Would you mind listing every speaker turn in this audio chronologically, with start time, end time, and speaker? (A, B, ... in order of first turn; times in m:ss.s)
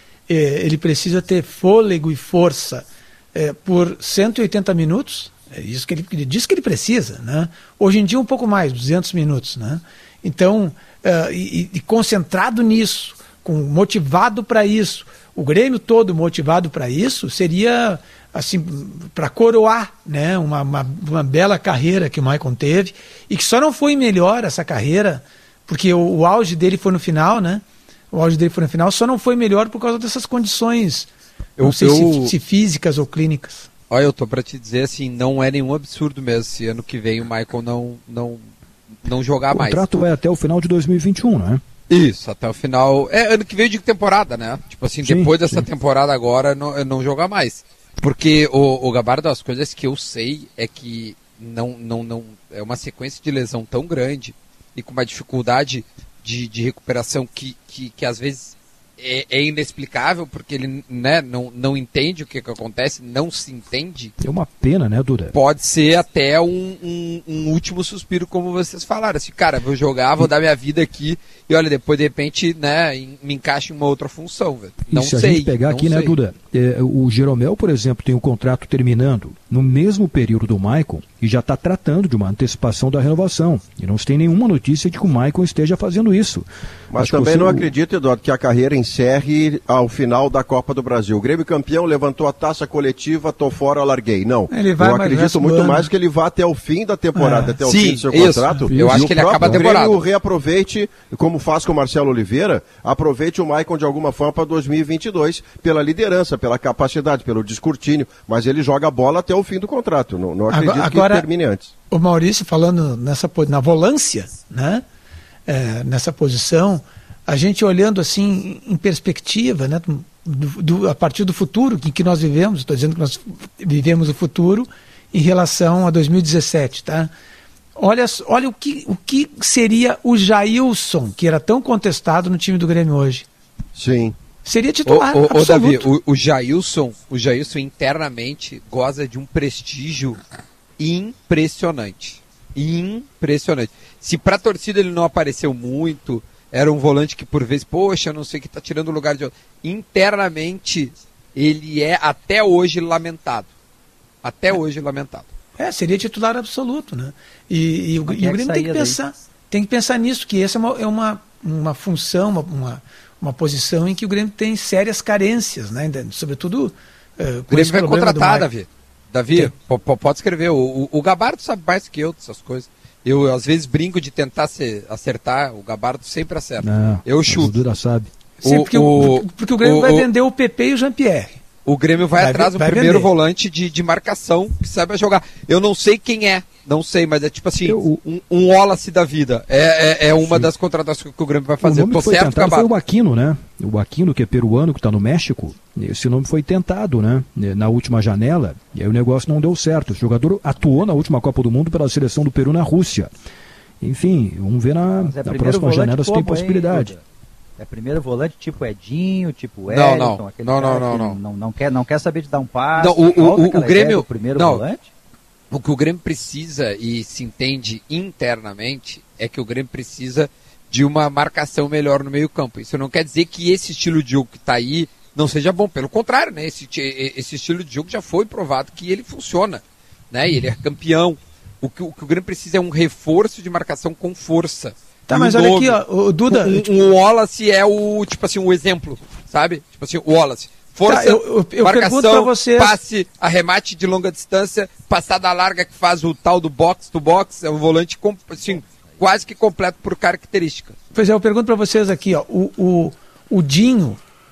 0:00.3-0:33.7 A
0:31.6-0:32.3 B
0:33.9-0:38.5 C
0:39.0-0:39.8 C
0:39.5-0:41.6 D
0:41.9-1:04.1 C
0:45.0-0:45.6 D
1:04.2-1:05.3 D
1:05.3-1:16.2 C
1:14.9-1:27.7 D
1:26.9-1:51.7 B
1:34.5-1:35.9 A
1:37.2-1:37.6 A
1:37.6-1:40.0 C
1:38.7-1:39.6 D
1:50.5-1:51.2 A
1:51.9-1:54.8 A
1:55.5-2:07.1 A
2:07.8-2:13.2 A
2:13.8-2:14.2 B
2:14.4-2:15.9 A
2:14.8-2:20.2 C
2:20.8-2:33.5 C
2:34.2-2:35.3 C
2:35.6-2:48.5 A
2:38.1-2:39.0 E
2:47.5-2:57.6 C
2:56.6-2:58.1 D
2:58.4-3:01.4 A
2:58.4-3:00.1 C
3:01.6-3:12.7 C
3:02.2-3:03.1 A
3:07.6-3:08.0 D
3:10.1-3:10.5 D
3:11.6-3:23.1 D
3:23.8-3:26.9 D
3:25.0-3:27.0 E
3:27.6-3:34.9 E
3:29.7-3:31.2 C
3:32.8-3:34.6 C
3:35.5-4:10.8 C
3:55.1-3:56.7 A
4:00.8-4:02.8 A
4:10.9-4:14.0 A